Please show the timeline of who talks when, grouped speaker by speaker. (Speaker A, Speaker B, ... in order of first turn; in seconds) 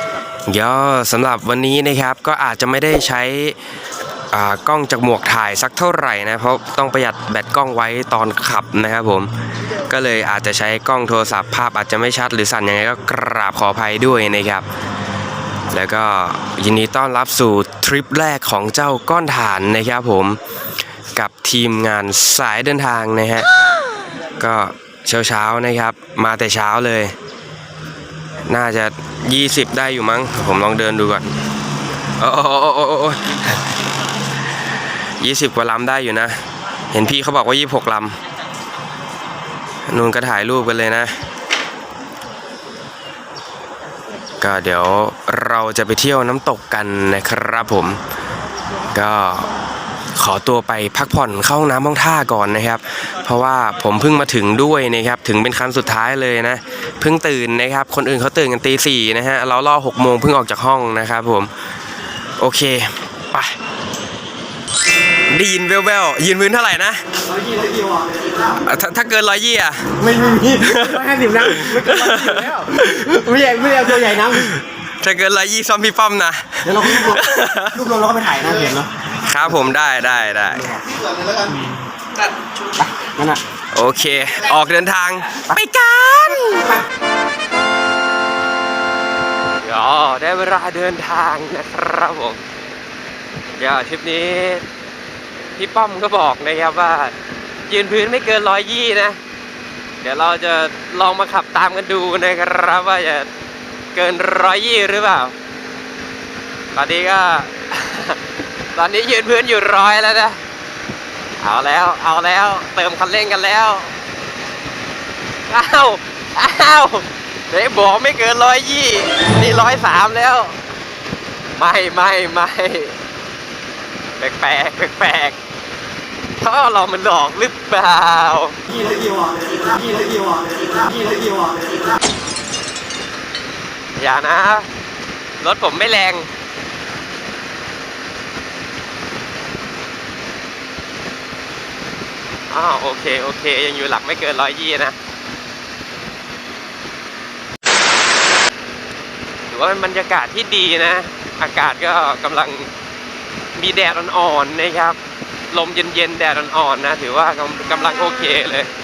Speaker A: 0.5-3.6, 4.3-9.3, 9.8-14.7, 15.7-20.4, 21.1-23.5, 24.4-27.1, 28.4-31.3, 32.2-33.6, 35.2-38.2, 39.9-41.1, 44.4-48.0, 48.9-49.5, 50.1-61.5, 62.4-63.6, 65.3-67.0, 68.5-73.3, 74.0-77.8, 79.1-80.7, 83.7-86.8, 89.6-92.5, 93.5-94.7, 95.5-97.2, 97.7-99.2, 100.0-103.3, 103.9-105.3, 106.7-108.2, 108.7-110.4, 111.4-113.9, 115.5-120.6, 121.6-123.0, 124.2-125.4, 126.4-128.6, 133.9-134.7, 135.4-136.3, 142.5-145.0, 149.5-152.7, 153.5-155.0, 155.5-158.7
Speaker B: 70.1-74.5, 76.7-77.2, 77.7-78.9, 81.3-81.7, 83.0-83.4